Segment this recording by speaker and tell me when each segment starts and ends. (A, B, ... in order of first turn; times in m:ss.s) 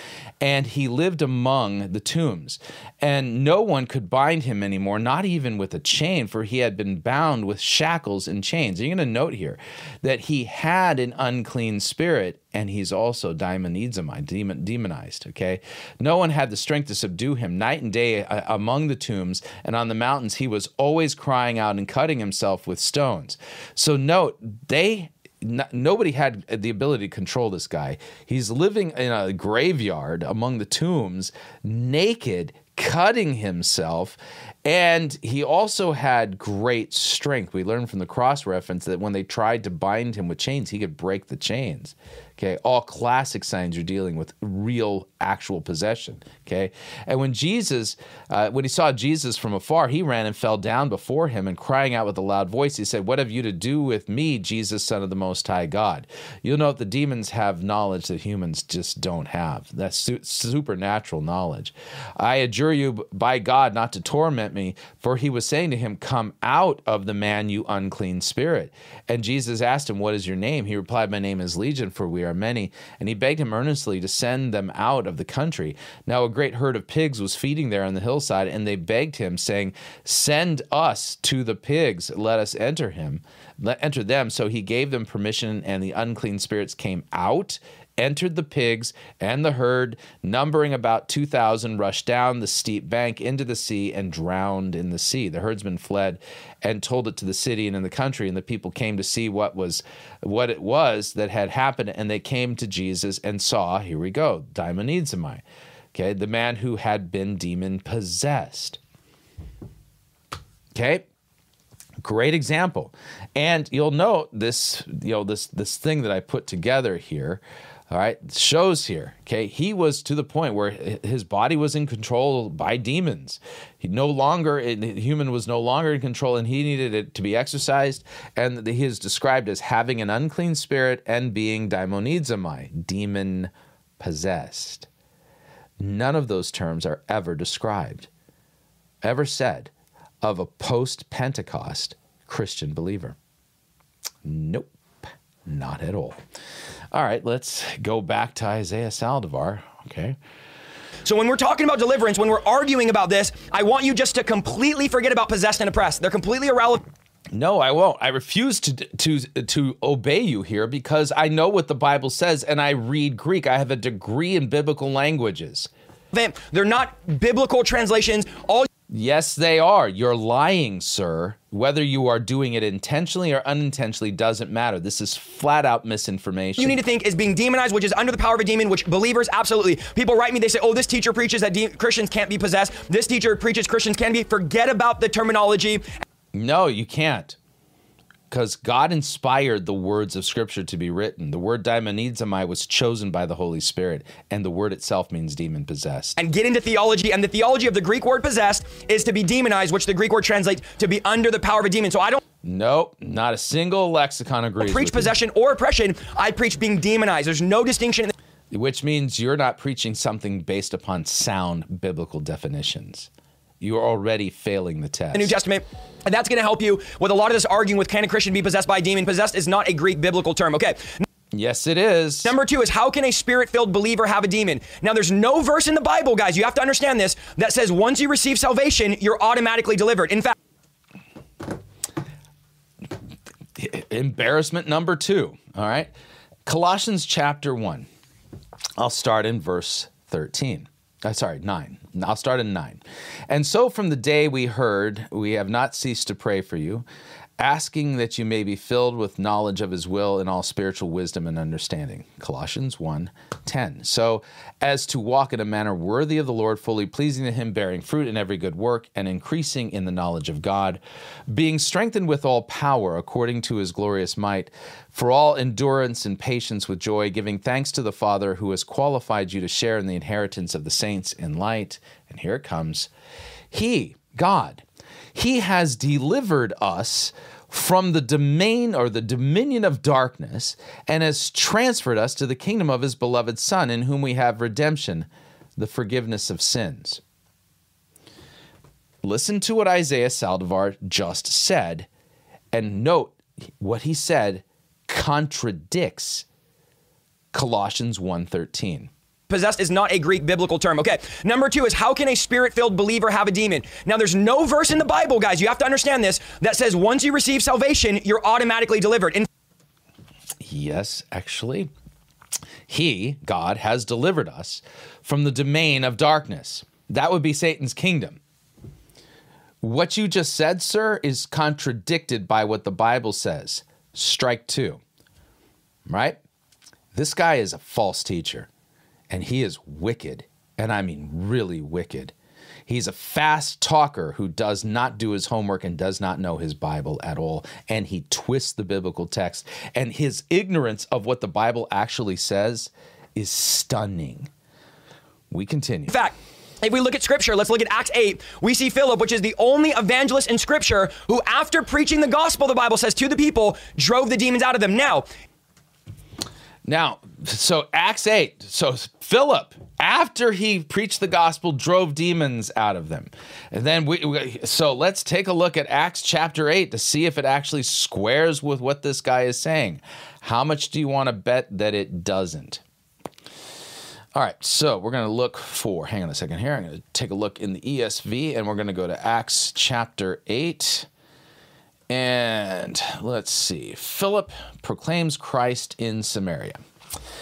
0:00.4-1:45.4 A
1:45.9-1:48.8 A
1:50.8-1:51.1 A
1:52.0-2:14.9 A
2:15.8-2:18.1 A
2:19.0-2:19.7 A
2:20.2-2:23.2 A
2:24.2-2:26.2 A
2:26.9-2:30.2 A
2:31.0-2:36.8 B
2:37.3-2:45.7 A
2:46.1-2:48.7 B
2:48.9-2:56.8 A
2:56.6-3:05.8 B
3:06.3-3:07.4 A
3:08.3-3:16.2 A
3:16.2-3:22.2 B
3:22.4-3:25.1 A
3:24.6-3:28.1 B
3:28.5-3:33.1 A
3:33.6-3:35.4 A
3:35.1-3:41.0 B
3:41.3-3:42.4 A
3:42.2-3:50.4 B
3:53.6-3:55.9 A
3:56.5-3:57.9 A
3:58.8-4:06.9 A
4:07.4-4:32.9 A
4:33.5-4:47.0 A
4:49.0-4:51.9 A
4:52.5-4:56.3 A
4:57.3-4:58.9 A
4:59.3-5:09.3 B
5:10.4-5:11.7 A
5:12.7-5:18.2 A
5:19.6-5:24.8 A
5:25.9-5:26.2 A
5:27.0-5:28.5 A
5:29.1-5:32.1 A
5:32.7-5:44.3 A
5:45.3-5:45.9 A
5:45.9-5:55.1 B
5:56.6-6:12.6 A
6:14.2-6:20.9 A
6:21.9-6:26.6 A